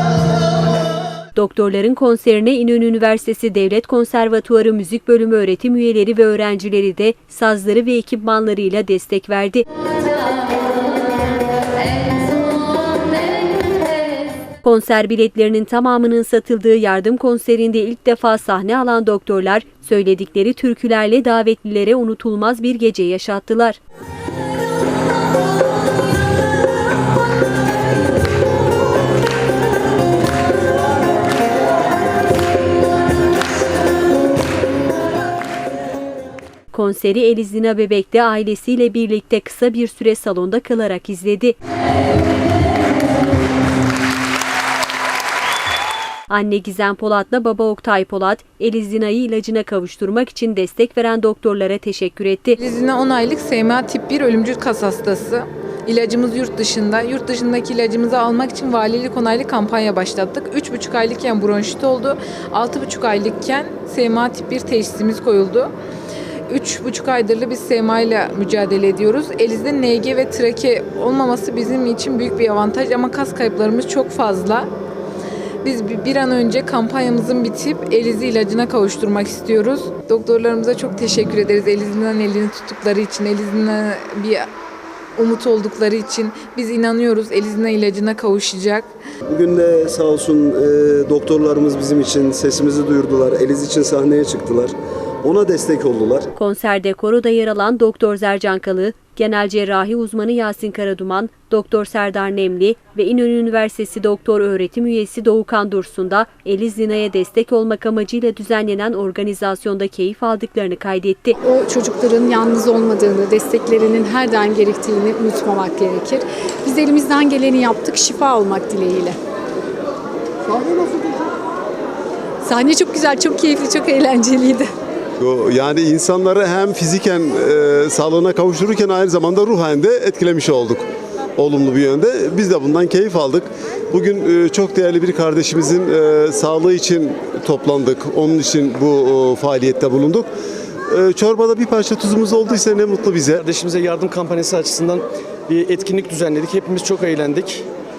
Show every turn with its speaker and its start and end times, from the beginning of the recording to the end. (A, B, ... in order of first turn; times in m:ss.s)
0:01.3-0:09.6 A
0:14.6-0:23.8 A
0:36.7-0:41.5 A
0:46.3-0:52.6 A
0:52.6-1:05.7 B
1:06.5-1:14.7 B
1:15.6-1:24.5 B
1:25.2-1:28.9 B
1:29.3-1:34.7 C
1:35.2-1:36.2 C
1:36.4-1:51.4 A
1:51.4-1:59.2 D
2:00.6-2:01.0 D
2:02.4-2:04.7 D
2:05.2-2:10.8 E
2:11.4-2:20.3 E
2:20.9-2:23.4 E
2:23.3-2:27.6 F